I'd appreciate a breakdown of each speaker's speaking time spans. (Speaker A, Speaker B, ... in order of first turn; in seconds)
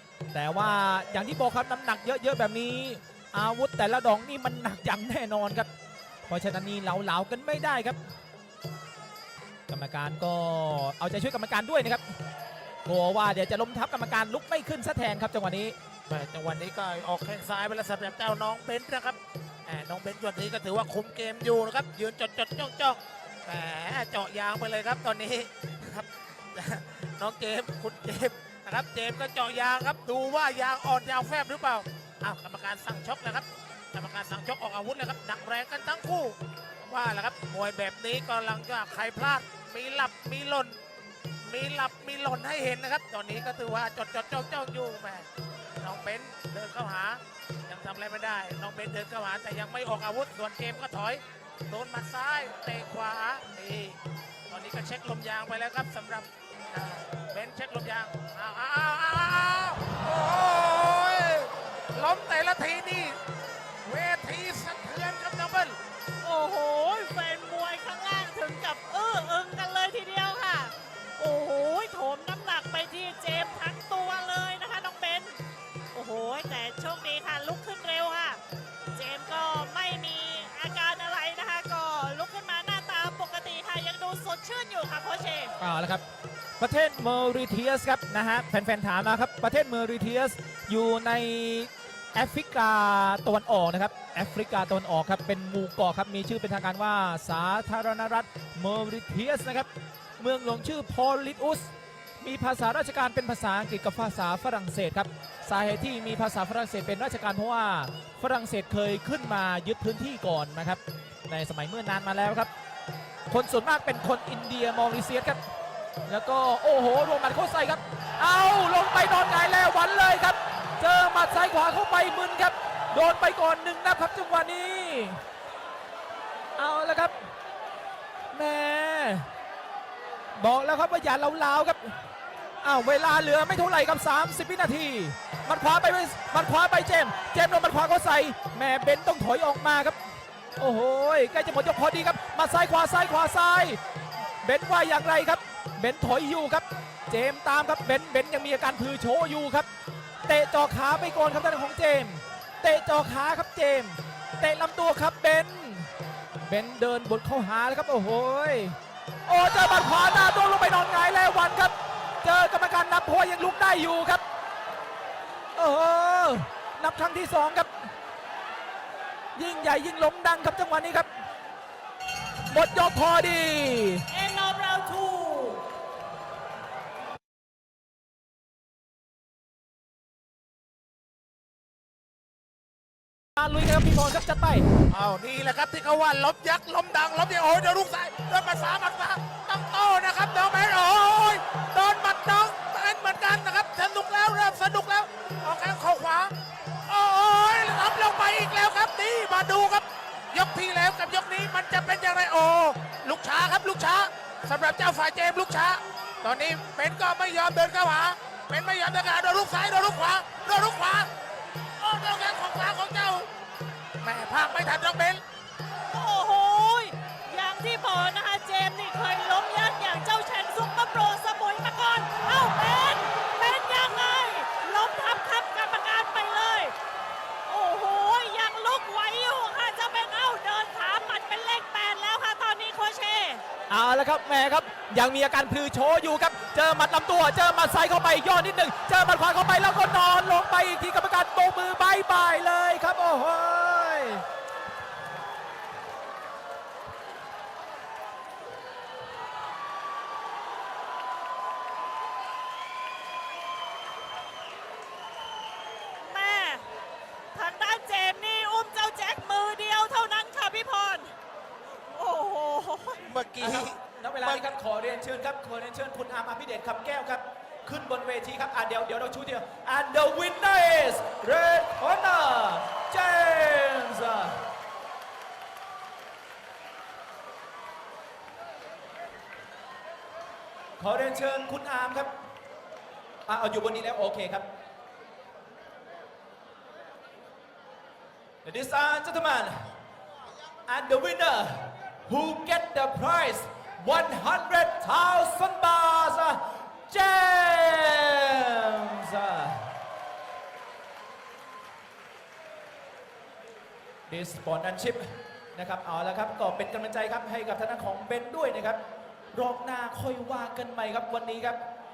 Speaker A: 0.3-5.7, 6.3-8.0, 9.7-12.0, 12.9-15.8, 85.6-86.0, 86.6-99.7, 100.2-112.5, 113.3-115.4, 116.1-125.2, 126.6-127.1, 128.3-129.3, 130.4-131.9, 132.6-140.0, 140.6-143.8, 144.4-149.7, 150.3-155.9, 156.4-164.2, 165.6-167.9, 169.4-171.1, 172.5-174.1, 183.4-184.7, 233.7-244.2, 263.4-274.4, 280.8-282.1, 283.3-284.5, 288.4-289.6, 290.7-299.7, 304.1-305.0, 305.6-308.8, 309.3-311.6
Speaker B: 16.1-40.8, 41.4-45.3, 45.8-54.0, 54.5-63.2, 63.9-65.8, 184.9-196.3, 196.9-211.1, 211.8-213.3, 214.0-215.2, 263.1-264.5
Speaker C: 66.2-75.4, 75.9-78.4, 79.0-85.5, 174.1-175.6, 215.9-226.8, 227.5-233.4, 256.0-256.6, 257.3-261.1, 261.9-263.0